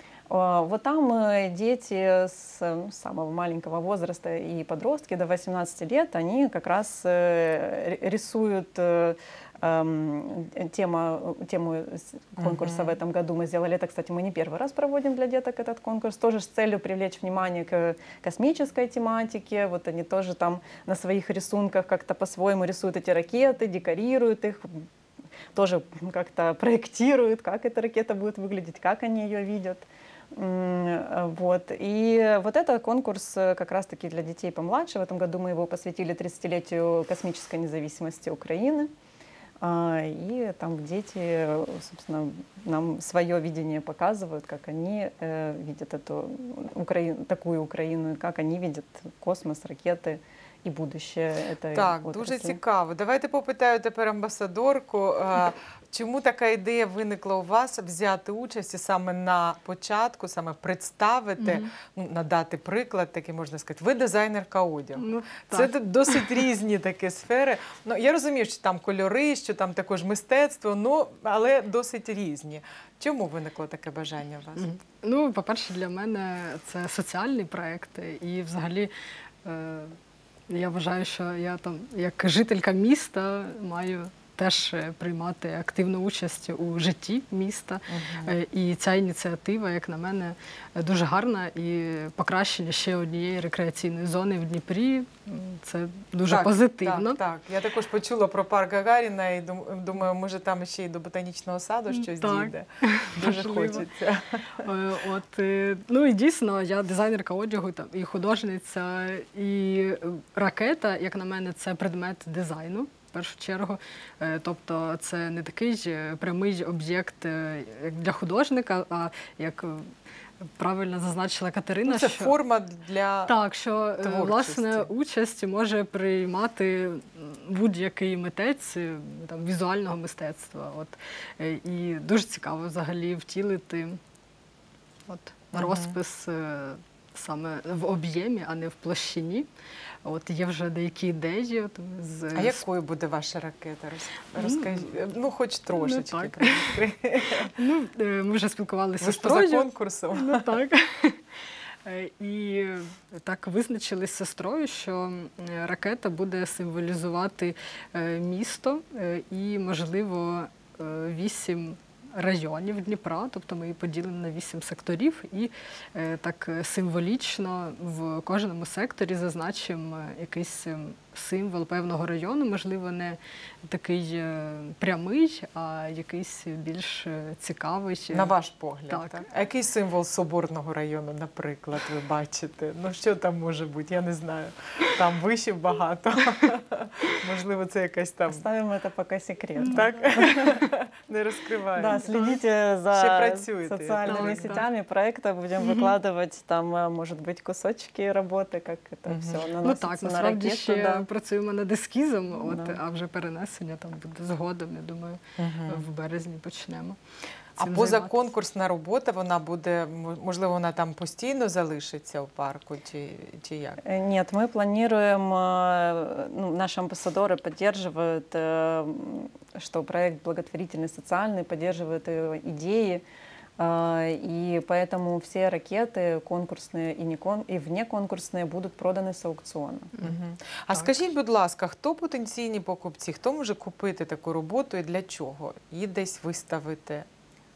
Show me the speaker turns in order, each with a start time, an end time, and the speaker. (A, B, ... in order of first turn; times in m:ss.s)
0:00.3-0:24.9 A
0:12.4-0:13.0 B
0:25.6-0:38.9 A
0:39.6-0:52.6 A
0:51.7-1:14.7 B
1:01.4-1:01.7 C
1:05.0-1:06.4 C
1:14.6-1:18.9 C
1:19.4-1:20.0 C
1:20.5-1:37.2 C
1:27.9-1:28.4 B
1:36.3-1:44.6 B
1:41.9-1:43.9 C
1:44.6-1:59.9 C
2:00.6-2:02.4 C
2:01.8-2:03.4 B
2:03.3-2:14.0 C
2:04.0-2:04.9 B
2:15.1-2:19.5 C
2:15.5-2:16.0 B
2:20.0-2:22.6 C
2:22.4-2:27.5 B
2:24.4-2:24.9 C
2:25.7-2:26.8 C
2:27.6-2:31.2 C
2:29.0-2:30.5 B
2:31.8-2:58.3 C
2:58.1-3:08.4 B
2:58.9-2:59.3 C
3:08.3-3:10.6 A
3:09.6-3:12.0 B
3:11.8-3:21.1 A
3:12.0-3:12.3 C
3:12.9-3:14.6 B
3:14.1-3:14.6 C
3:15.6-3:15.9 C
3:19.1-3:19.4 B
3:19.6-3:27.0 C
3:22.4-3:22.8 A
3:25.4-3:25.8 B
3:27.6-3:33.8 B
3:27.6-3:28.1 C
3:33.8-3:43.0 A
3:43.6-3:49.9 A
3:50.0-3:57.1 B